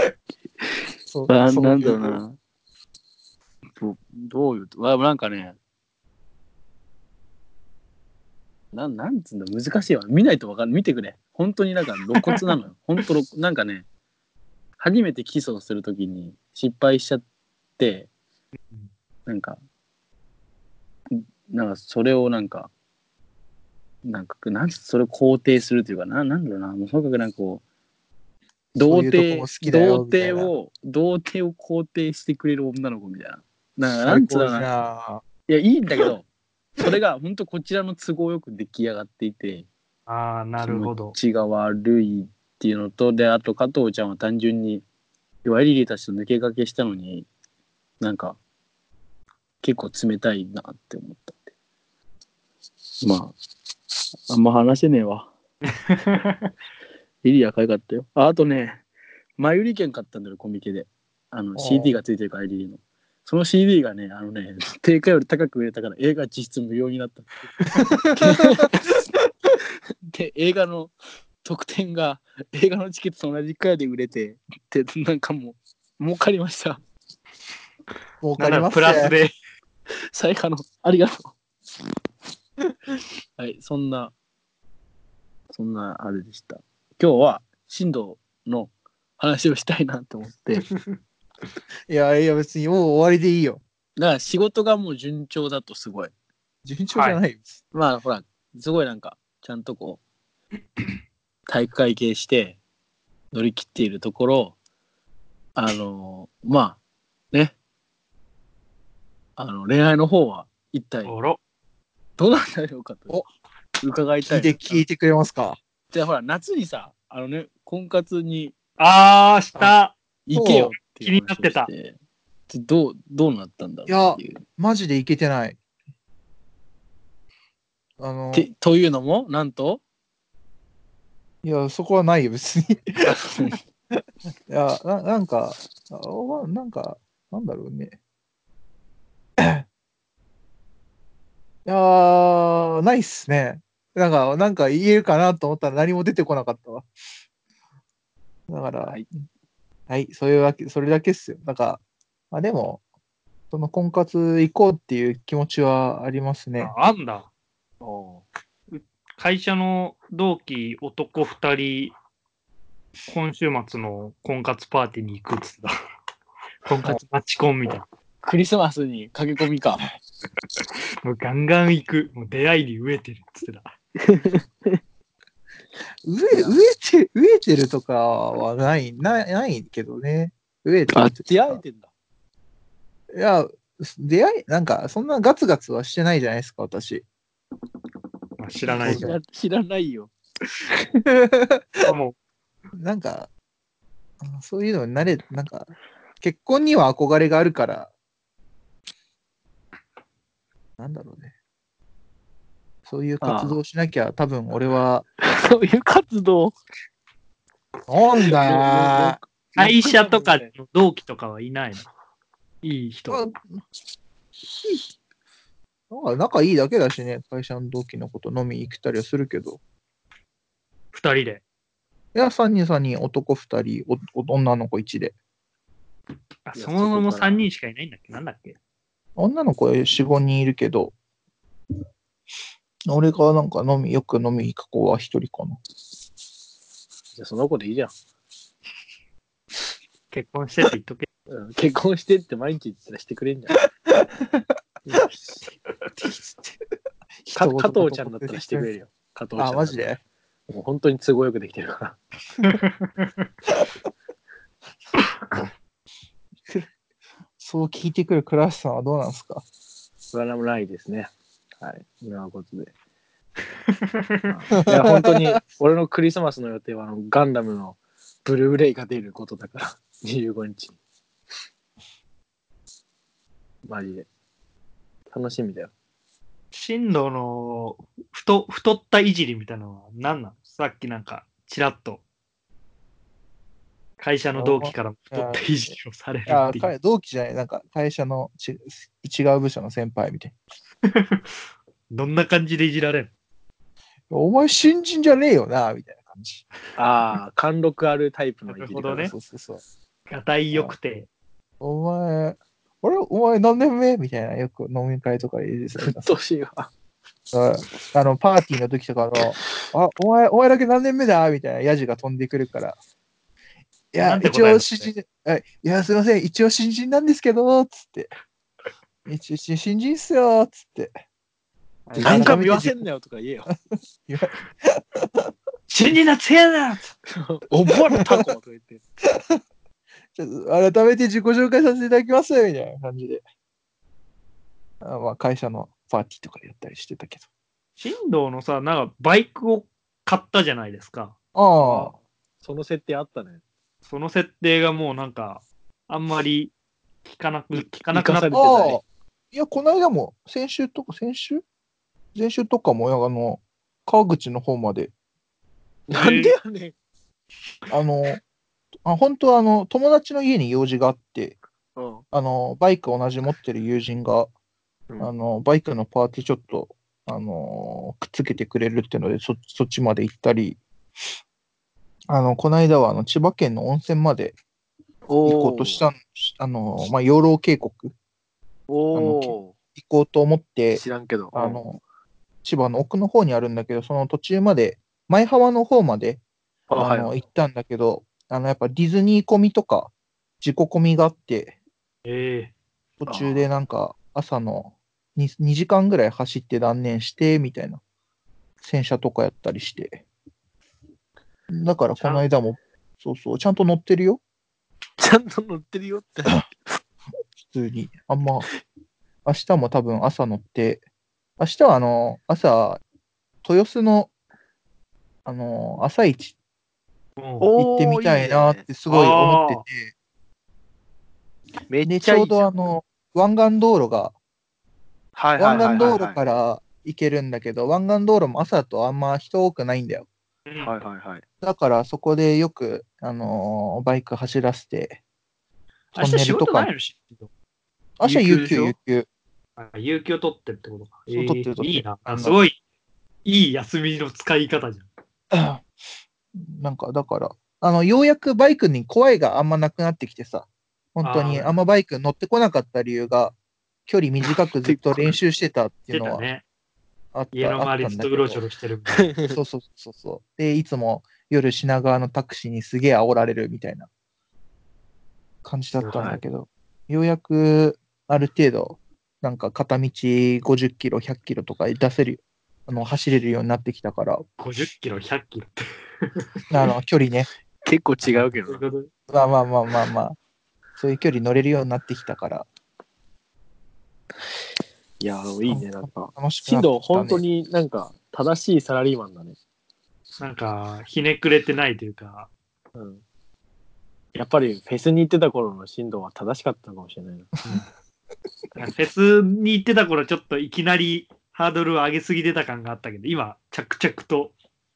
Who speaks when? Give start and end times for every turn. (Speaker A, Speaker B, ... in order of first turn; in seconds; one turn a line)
Speaker A: 1.1-2.2
Speaker B: 1.3-2.4
Speaker B: 3.8-5.5
Speaker B: 8.7-13.8
Speaker B: 14.8-17.2
Speaker B: 17.8-18.1
Speaker B: 19.2-19.6
Speaker B: 21.1-22.7
Speaker B: 24.0-27.6
Speaker B: 28.8-34.7
Speaker A: 28.9-30.5
Speaker A: 34.0-35.2
Speaker B: 35.5-36.2
Speaker B: 36.8-39.7
Speaker C: 40.1-41.1
Speaker B: 40.6-44.8
Speaker B: 45.4-47.3
Speaker B: 48.0-48.4
Speaker B: 49.6-51.5
Speaker B: 53.0-53.3
Speaker B: 54.3-55.3
Speaker C: 55.9-56.4
Speaker B: 57.2-58.8
Speaker B: 59.4-68.9
Speaker A: 61.5-62.0
Speaker A: 68.0-68.7
Speaker B: 70.1-70.9
Speaker B: 71.4-76.8
Speaker A: 78.2-79.1
Speaker C: 78.4-79.3
Speaker B: 80.1-81.3
Speaker B: 83.4-84.1
Speaker B: 85.5-90.6
Speaker A: 91.9-93.6
Speaker B: 94.0-96.1
Speaker A: 96.6-97.5
Speaker C: 96.9-97.2
Speaker B: 97.7-100.0
Speaker B: 101.5-102.6
Speaker B: 103.3-104.5
Speaker B: 105.5-106.8
Speaker B: 109.4-111.1
Speaker C: 111.0-111.4
Speaker B: 112.2-113.2
Speaker B: 113.8-114.8
Speaker A: 114.3-115.6
Speaker B: 115.9-118.5
Speaker C: 118.8-119.9
Speaker B: 120.3-121.9
Speaker A: 120.3-120.7
Speaker C: 120.8-121.7
Speaker B: 122.5-124.4
Speaker A: 123.9-125.6
Speaker A: 128.0-128.5
Speaker B: 128.3-129.8
Speaker A: 131.4-133.0
Speaker B: 133.0-133.6
Speaker A: 134.5-137.9
Speaker A: 139.4-139.6
Speaker A: 141.7-146.9
Speaker A: 148.5-149.0
Speaker A: 149.9-152.8
Speaker A: 153.5-156.7
Speaker C: 156.6-157.3
Speaker B: 157.8-158.2
Speaker C: 158.7-161.9
Speaker C: 163.1-165.7
Speaker C: 166.6-167.8
Speaker B: 168.2-169.9
Speaker C: 171.0-173.7
Speaker B: 174.0-174.8
Speaker A: 176.0-181.6
Speaker B: 176.3-176.6
Speaker B: 180.9-181.9
Speaker A: 183.1-187.0
Speaker C: 188.4-189.1
Speaker B: 188.7-190.1
Speaker A: 188.8-189.2
Speaker A: 191.1-191.9
Speaker C: 191.8-192.1
Speaker A: 192.8-193.3
Speaker A: 194.2-197.9
Speaker A: 200.8-201.3
Speaker A: 202.8-205.0
Speaker B: 203.2-203.6
Speaker B: 205.2-206.6
Speaker A: 207.9-209.2
Speaker B: 208.3-210.5
Speaker C: 209.6-211.9
Speaker C: 212.6-213.2
Speaker A: 213.1-213.6
Speaker A: 215.9-219.6
Speaker C: 220.9-221.4
Speaker A: 222.1-225.1
Speaker C: 226.4-228.6
Speaker B: 226.5-227.4
Speaker A: 229.2-230.9
Speaker A: 232.9-235.6
Speaker B: 237.1-237.9
Speaker C: 240.1-241.1
Speaker B: 241.3-243.6
Speaker A: 243.9-245.0
Speaker A: 246.0-246.5
Speaker A: 247.3-248.7
Speaker B: 247.3-249.8
Speaker A: 249.4-250.0
Speaker B: 250.5-252.0
Speaker C: 252.4-253.1
Speaker A: 257.4-259.4
Speaker B: 260.1-262.7
Speaker C: 264.0-264.2
Speaker B: 264.3-270.8
Speaker A: 264.6-265.4
Speaker B: 273.7-274.1
Speaker B: 275.1-275.7
Speaker C: 276.5-282.0
Speaker C: 284.0-286.7
Speaker A: 284.4-285.4
Speaker A: 286.3-290.3
Speaker C: 290.8-291.3
Speaker C: 291.9-293.1
Speaker A: 294.1-296.4
Speaker B: 296.8-299.1
Speaker C: 298.5-299.1
Speaker A: 298.9-299.6
Speaker C: 300.1-301.1
Speaker A: 301.6-306.1
Speaker B: 305.8-306.7
Speaker A: 307.3-312.8
Speaker A: 313.9-318.1
Speaker C: 314.0-314.9
Speaker A: 319.1-321.0
Speaker C: 321.9-322.4
Speaker A: 321.9-322.8
Speaker B: 322.0-323.5
Speaker A: 324.1-325.3
Speaker C: 325.7-326.9
Speaker B: 327.1-328.8
Speaker A: 329.1-329.4
Speaker A: 330.1-333.2
Speaker A: 334.8-337.2
Speaker C: 337.8-341.1
Speaker A: 341.3-341.9
Speaker B: 341.6-343.4
Speaker C: 343.8-346.5
Speaker C: 347.0-348.6
Speaker B: 347.5-348.8
Speaker A: 348.3-351.4
Speaker A: 352.1-354.9
Speaker B: 355.9-356.7
Speaker C: 355.9-356.3
Speaker A: 357.7-358.2
Speaker A: 358.8-361.4
Speaker B: 361.8-362.0
Speaker A: 362.1-364.3
Speaker A: 365.0-370.6
Speaker A: 372.1-374.4
Speaker B: 375.1-375.9
Speaker A: 375.2-377.9
Speaker B: 378.7-379.5
Speaker A: 378.9-381.8
Speaker B: 380.7-381.6
Speaker A: 382.4-386.2
Speaker B: 386.7-387.1
Speaker A: 386.8-391.5
Speaker C: 392.1-392.5
Speaker A: 393.0-397.8
Speaker B: 393.1-393.4
Speaker A: 398.6-400.0
Speaker A: 401.5-404.2
Speaker B: 405.0-406.4
Speaker A: 407.4-408.5
Speaker A: 409.2-410.8
Speaker A: 411.4-412.8
Speaker A: 413.4-414.1
Speaker A: 415.2-416.3
Speaker C: 417.2-417.5
Speaker B: 417.4-418.6
Speaker A: 417.6-419.9
Speaker C: 418.9-419.6
Speaker B: 421.7-422.5
Speaker A: 421.9-424.1
Speaker B: 425.1-426.2
Speaker A: 425.4-430.1
Speaker C: 425.5-426.0
Speaker C: 430.5-430.7
Speaker B: 430.6-431.2
Speaker A: 431.4-435.0
Speaker C: 435.9-437.3
Speaker A: 435.9-436.7
Speaker A: 438.0-439.1
Speaker C: 438.0-438.7
Speaker C: 439.6-442.6
Speaker A: 441.1-442.4
Speaker C: 443.2-444.9
Speaker A: 445.3-445.6
Speaker A: 446.3-453.4
Speaker C: 451.0-451.5
Speaker A: 453.9-456.2
Speaker B: 454.6-455.2
Speaker C: 455.9-456.4
Speaker A: 457.1-458.4
Speaker C: 457.3-459.1
Speaker B: 459.0-459.4
Speaker A: 459.3-463.9
Speaker A: 465.4-474.2
Speaker C: 465.8-466.2
Speaker C: 474.4-476.6
Speaker A: 476.5-477.3
Speaker B: 477.6-478.6
Speaker C: 478.0-478.9
Speaker A: 479.1-480.2
Speaker A: 480.8-482.5
Speaker B: 485.0-489.4
Speaker A: 485.4-487.2
Speaker C: 490.2-492.3
Speaker B: 492.8-493.0
Speaker B: 494.1-497.3
Speaker C: 498.6-504.3